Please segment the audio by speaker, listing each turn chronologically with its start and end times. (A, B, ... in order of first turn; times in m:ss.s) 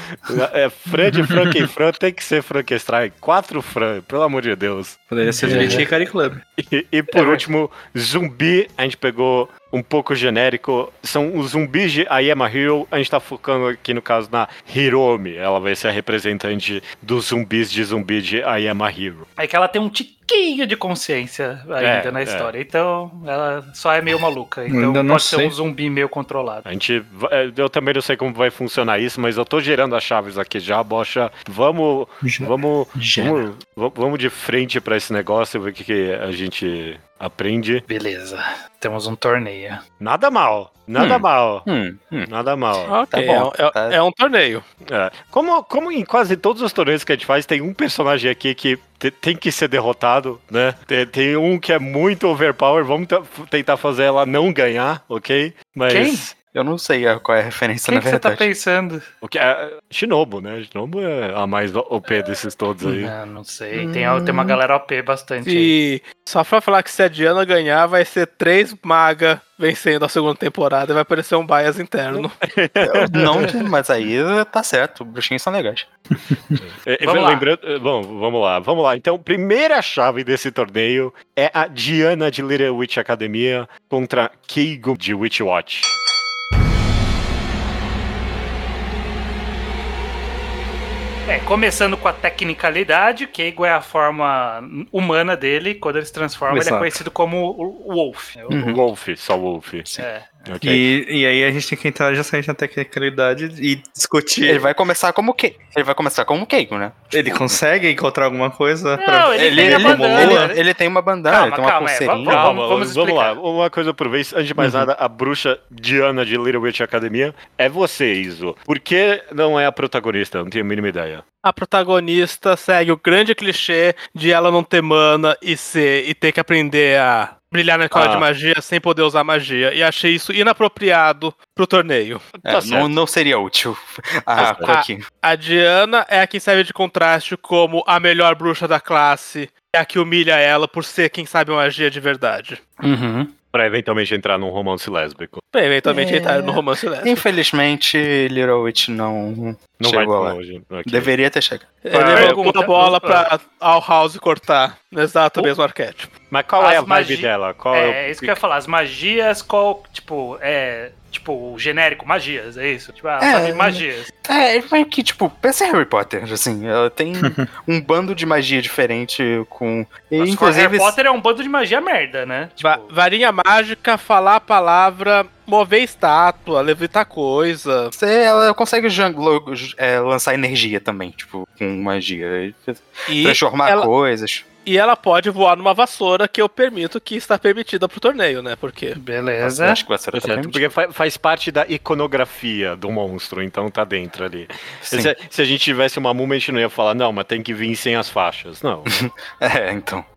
0:00.2-0:05.8 A
0:01.1-0:01.5 B
0:05.1-0:06.4 B
0:05.5-0:05.8 C
0:06.6-0:19.2 A
0:07.2-0:07.4 C
0:19.4-0:26.6 C
0:21.8-0:22.5 A
0:24.7-0:25.5 B
0:26.6-0:37.8 A
0:32.2-0:33.4 B
0:37.9-0:39.8 C
0:40.0-0:41.6 A
0:41.0-0:42.3 D
0:42.2-0:43.0 A
0:42.9-0:44.6 E
0:43.1-0:44.0 D
0:44.8-0:56.3 A
0:55.9-0:56.2 C
0:56.5-0:58.4 D
0:57.9-0:59.0 C
0:59.2-1:03.1 A
1:02.8-1:05.7 C
1:03.7-1:04.6 D
1:05.4-1:12.3 E
1:12.1-1:13.6 A
1:12.8-1:15.9 D
1:16.2-1:16.6 B
1:16.6-1:25.9 A
1:17.0-1:17.4 C
1:31.2-1:38.7 C
1:36.5-1:37.0 B
1:38.5-1:38.8 D
1:38.5-1:40.9 A
1:39.9-1:40.4 C
1:40.6-1:44.7 B
1:44.4-1:47.6 D
1:47.1-1:50.5 B
1:49.0-1:50.6 C
1:49.3-1:52.5 D
1:51.3-1:53.4 C
1:52.2-2:01.2 A
2:01.4-2:12.2 E
2:07.9-2:08.3 A
2:12.4-2:13.0 A
2:12.4-2:15.0 D
2:14.4-2:14.7 A
2:14.6-2:22.6 E
2:22.8-2:23.3 C
2:23.5-2:25.4 A
2:25.5-2:27.2 E
2:25.8-2:32.3 D
2:29.8-2:31.1 A
2:31.8-2:36.1 E
2:31.9-2:33.3 C
2:36.3-2:38.4 A
2:36.6-2:44.1 C
2:43.2-2:51.0 D
2:47.2-2:47.5 B
2:50.2-2:52.9 C
2:52.6-2:57.9 E
2:57.9-3:04.4 D
3:03.1-3:03.9 E
3:04.6-3:09.0 E
3:08.9-3:09.8 C
3:09.4-3:10.6 D
3:10.1-3:18.9 A
3:14.8-3:15.1 D
3:18.9-3:20.0 D